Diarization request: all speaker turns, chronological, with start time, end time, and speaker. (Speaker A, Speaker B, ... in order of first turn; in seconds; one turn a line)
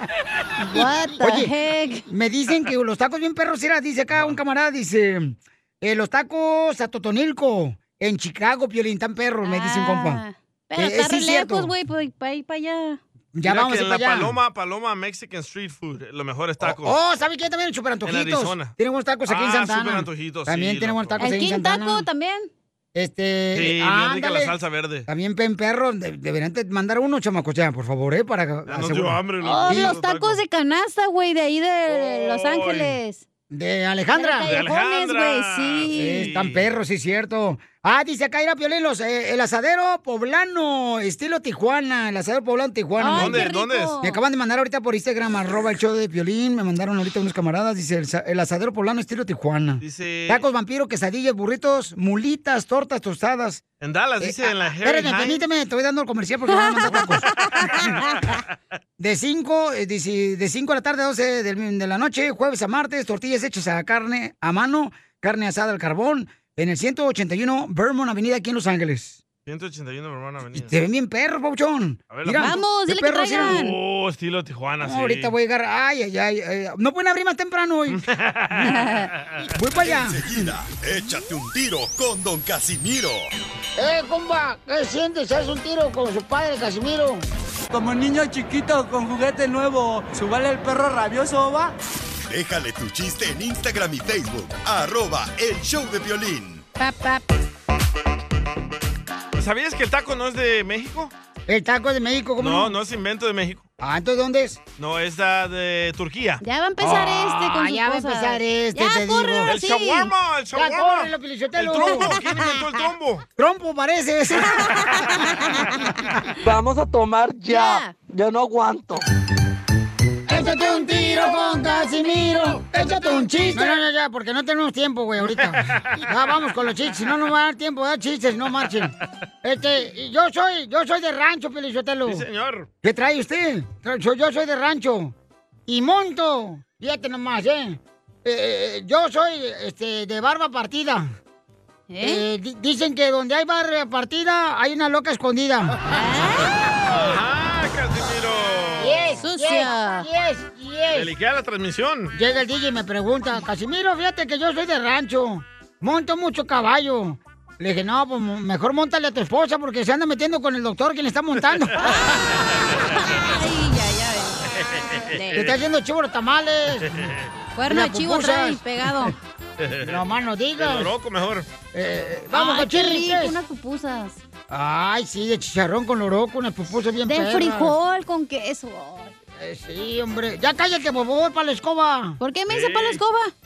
Speaker A: 0.6-2.1
Speaker B: 0.7-1.5
Speaker B: 2.1-10.2
Speaker A: 9.4-13.0
Speaker B: 10.8-11.7
Speaker B: 13.3-14.4
Speaker C: 13.5-17.0
Speaker B: 16.6-22.1
Speaker C: 18.1-18.7
Speaker C: 19.3-21.2
Speaker A: 21.2-22.5
Speaker B: 22.9-24.5
Speaker C: 23.5-25.1
Speaker B: 25.1-30.0
Speaker C: 28.7-30.4
Speaker A: 29.4-33.2
Speaker C: 31.9-33.0
Speaker B: 33.5-34.5
Speaker A: 34.1-36.3
Speaker C: 34.5-36.7
Speaker B: 35.9-43.5
Speaker A: 43.0-44.2
Speaker C: 43.1-44.0
Speaker B: 44.0-53.6
Speaker C: 49.8-50.5
Speaker C: 53.8-55.5
Speaker B: 54.2-57.8
Speaker A: 56.5-57.9
Speaker B: 59.0-69.2
Speaker C: 69.5-70.7
Speaker B: 70.5-73.6
Speaker C: 72.1-72.6
Speaker A: 72.4-73.8
Speaker C: 73.3-75.3
Speaker B: 74.8-78.0
Speaker C: 77.9-79.5
Speaker A: 78.6-79.1
Speaker B: 79.5-80.2
Speaker D: 79.8-83.3
Speaker B: 83.8-87.3
Speaker E: 87.7-91.7
Speaker D: 92.3-96.7
Speaker A: 96.8-97.3
Speaker C: 99.4-101.1
Speaker B: 101.5-102.8
Speaker C: 102.4-103.7
Speaker B: 103.8-104.6
Speaker C: 104.8-106.4
Speaker A: 106.4-110.1
Speaker B: 106.8-109.5
Speaker C: 109.5-113.2
Speaker B: 110.5-112.1
Speaker A: 111.9-112.6
Speaker B: 113.4-115.0
Speaker A: 114.7-115.9
Speaker E: 116.5-119.0
Speaker A: 117.5-118.0
Speaker B: 120.3-132.2
Speaker A: 120.3-123.8
Speaker C: 125.3-126.1
Speaker C: 132.1-132.7
Speaker B: 132.8-135.1
Speaker B: 135.7-141.1
Speaker A: 141.9-142.2
Speaker B: 142.0-145.8
Speaker A: 145.9-146.5
Speaker C: 146.9-149.1
Speaker B: 148.8-151.1
Speaker A: 149.2-150.1
Speaker C: 150.9-152.1
Speaker B: 152.1-161.9
Speaker A: 161.8-164.5
Speaker C: 164.6-165.5
Speaker A: 165.0-165.5
Speaker B: 165.3-167.0
Speaker C: 166.9-167.3
Speaker A: 167.6-169.2
Speaker B: 167.7-168.6
Speaker C: 169.6-169.9
Speaker B: 169.8-170.9
Speaker C: 170.6-171.5
Speaker B: 171.7-173.4
Speaker A: 172.3-174.2
Speaker B: 174.5-177.8
Speaker A: 177.1-179.1
Speaker B: 179.4-182.2
Speaker A: 182.2-183.3
Speaker C: 182.5-183.0